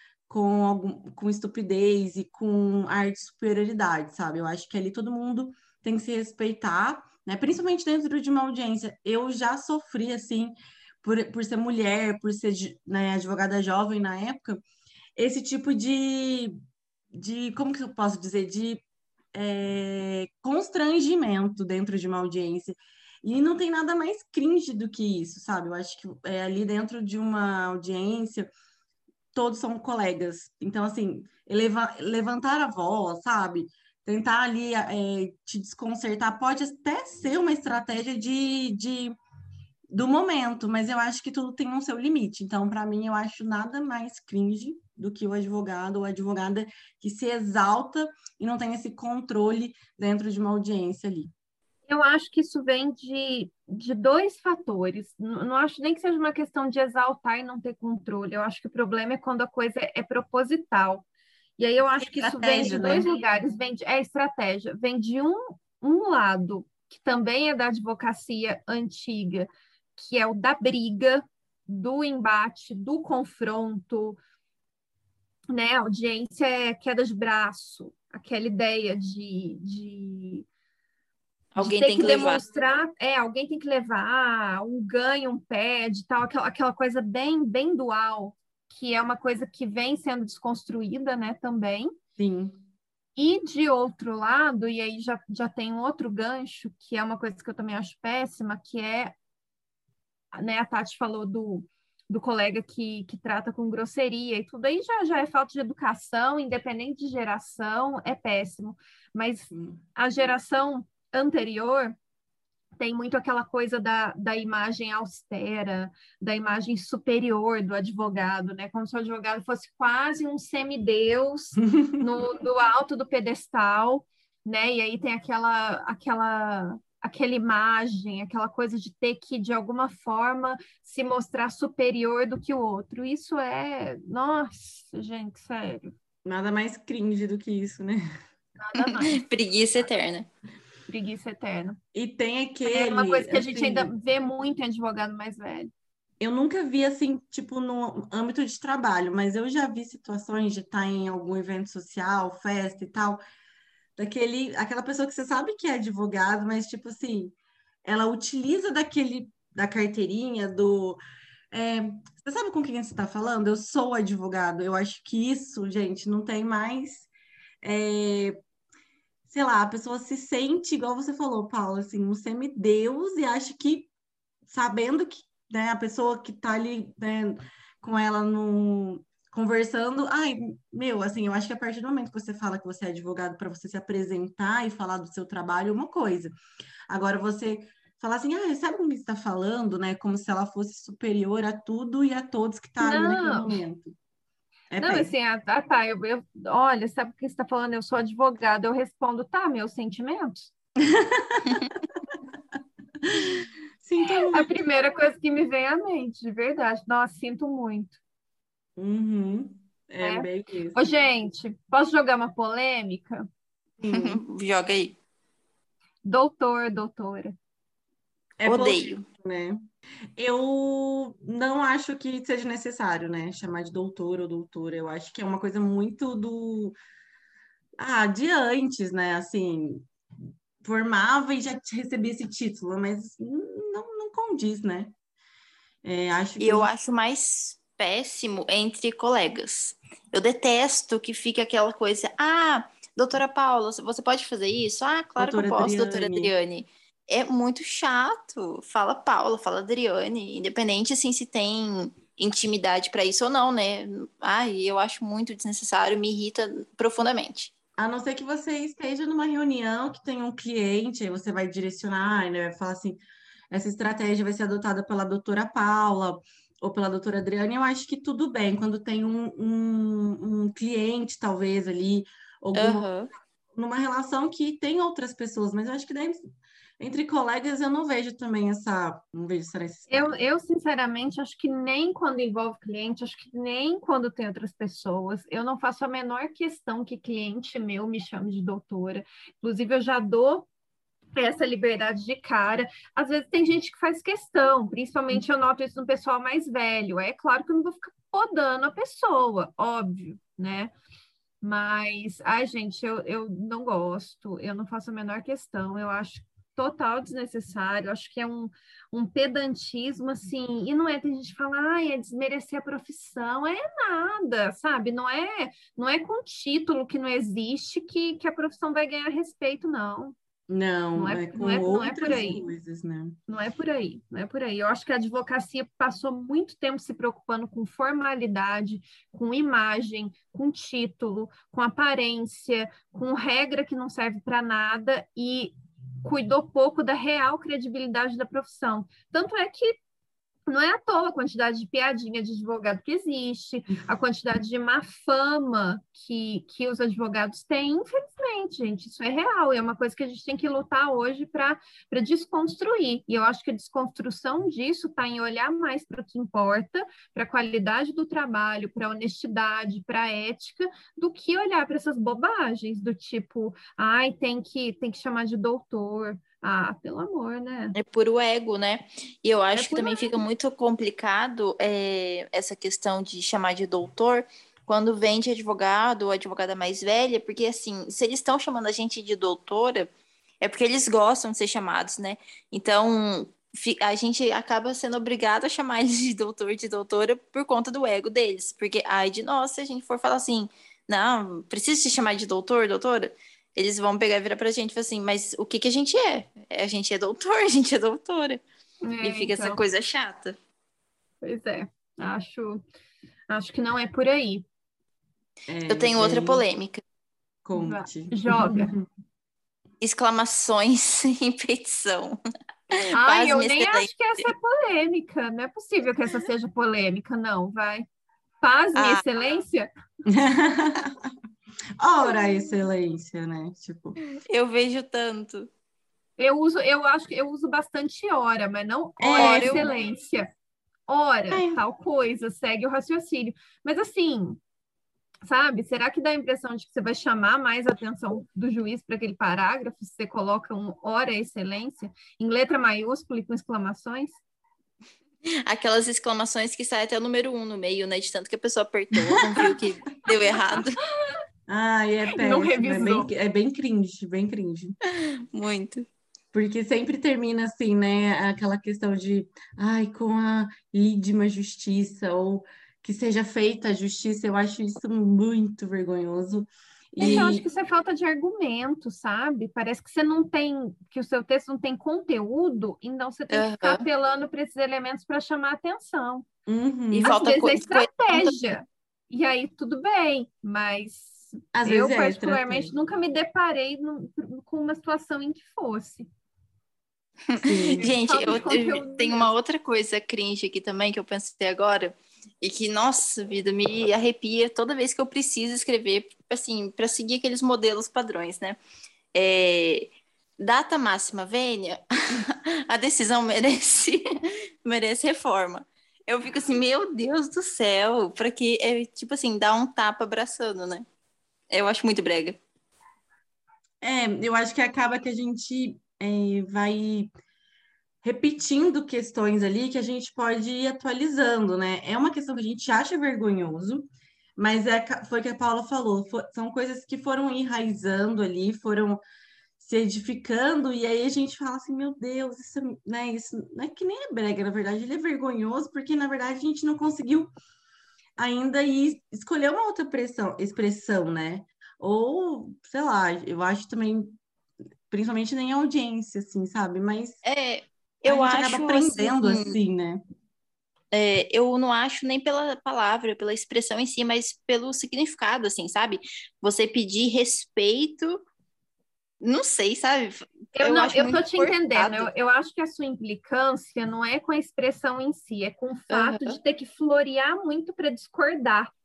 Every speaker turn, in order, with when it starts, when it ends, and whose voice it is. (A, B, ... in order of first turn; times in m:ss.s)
0:00.3-0:14.6 A
0:15.2-0:16.5 A
0:17.1-0:18.8 A
0:19.3-0:28.5 A
0:29.3-0:39.2 A
0:39.9-0:51.3 A
0:51.9-1:01.0 B
1:01.6-1:14.2 B
1:02.0-1:03.1 A
1:15.5-1:20.4 B
1:21.5-1:22.4 C
1:21.6-1:31.9 B
1:32.2-1:32.6 A
1:33.2-1:39.1 B
1:40.3-1:51.9 B
1:49.5-1:49.8 A
1:52.8-2:15.9 B
2:16.2-2:18.0 A
2:18.6-2:19.2 B
2:18.8-2:20.3 C
2:20.9-2:21.8 B
2:21.9-2:23.9 A
2:22.6-2:25.7 B
2:26.2-2:33.2 A
2:34.0-2:41.0 A
2:41.5-2:47.1 A
2:47.6-2:48.4 A
2:49.3-2:53.9 A
2:54.5-3:06.3 A
3:06.9-3:13.9 A
3:12.8-3:13.6 B
3:14.7-3:15.1 A
3:14.8-3:20.5 B
3:20.9-3:21.8 A
3:23.0-3:24.6 A
3:24.3-3:28.0 B
3:28.8-3:30.8 A
3:30.0-3:33.3 B
3:33.8-3:34.2 A
3:33.9-3:35.0 C
3:36.0-3:37.4 B
3:38.4-3:39.6 A
3:38.4-3:39.0 C
3:40.2-3:46.8 A
3:47.8-3:49.9 A
3:50.6-3:54.9 A
3:55.8-3:56.7 A
3:56.4-4:17.5 C
4:05.2-4:06.3 A
4:17.8-4:32.9 A
4:32.5-4:33.1 C
4:33.5-4:36.2 A
4:36.8-4:40.1 A
4:39.9-4:50.5 B
4:51.2-5:00.7 B
5:01.4-5:20.2 B
5:20.5-5:23.2 A
5:20.9-5:22.4 B
5:23.3-5:39.8 B
5:40.5-6:07.7 B
6:07.7-6:38.4 C
6:09.5-6:10.2 B
6:38.8-6:39.6 B
6:39.0-6:40.3 C
6:41.2-6:42.6 B
6:43.3-6:44.4 B
6:45.5-6:46.4 A
6:45.7-6:46.8 C
6:47.4-6:48.9 A
6:47.5-6:48.7 B
6:49.8-6:52.2 C
6:52.7-6:54.3 C
6:52.9-6:57.8 B
6:58.4-6:59.7 B
6:58.8-6:59.0 C
7:00.1-7:01.0 A
7:01.8-7:04.0 A
7:04.3-7:05.5 C
7:06.2-7:10.3 B
7:09.0-7:09.7 A
7:09.2-7:09.7 C
7:10.9-7:14.4 B
7:11.3-7:11.6 A
7:15.2-7:24.2 B
7:25.4-7:30.8 C
7:31.5-7:34.8 A
7:32.1-7:33.1 B
7:34.9-7:35.9 C
7:36.3-7:47.4 A
7:47.0-7:56.2 B
7:53.3-7:53.9 C
7:56.5-7:57.1 A
7:56.9-7:58.3 C
7:57.1-8:06.1 B
8:01.5-8:02.7 A
8:07.3-8:18.6 C
8:07.4-8:07.8 A
8:07.8-8:09.3 B
8:19.1-8:24.0 C
8:24.6-8:30.8 C
8:31.5-8:32.4 C
8:33.8-8:37.1 A
8:38.0-8:49.0 A
8:49.6-8:57.3 A
8:58.2-9:04.2 A
9:04.9-9:07.2 A
9:07.2-9:09.6 C
9:08.0-9:10.0 A
9:10.9-9:18.2 C
9:19.2-9:22.1 C
9:20.5-9:28.7 B
9:25.9-9:26.4 C